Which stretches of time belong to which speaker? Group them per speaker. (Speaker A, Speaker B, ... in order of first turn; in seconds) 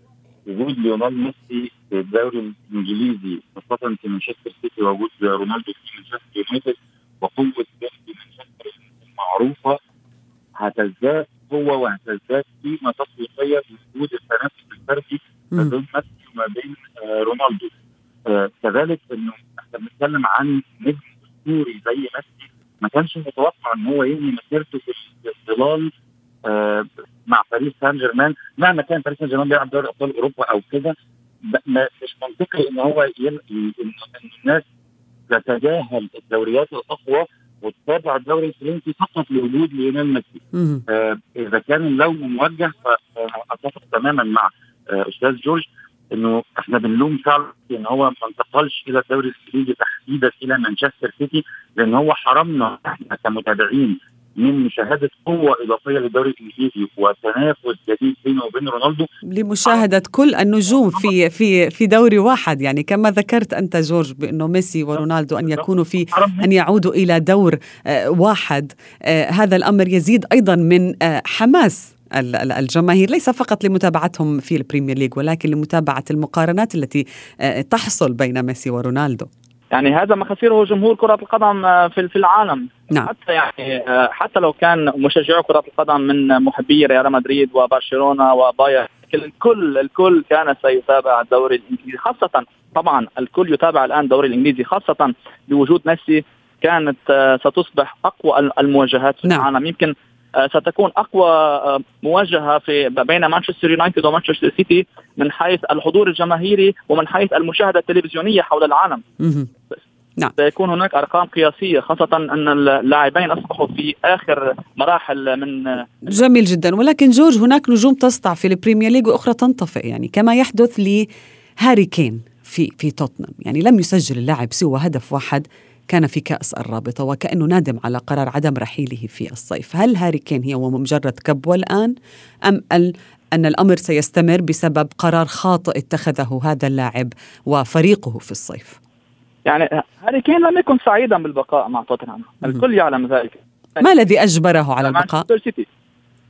Speaker A: 0.5-9.8, 10.6-17.7, 18.3-25.9, 26.4-30.9, 31.5-34.6, 35.3-59.1, 65.4-66.5
Speaker B: 40.5-40.8, 59.4-79.3, 109.2-109.5, 116.0-121.1, 121.6-131.9, 132.5-138.8, 143.8-145.3
Speaker C: 79.7-109.0, 110.4-115.9, 139.5-143.8, 144.8-145.7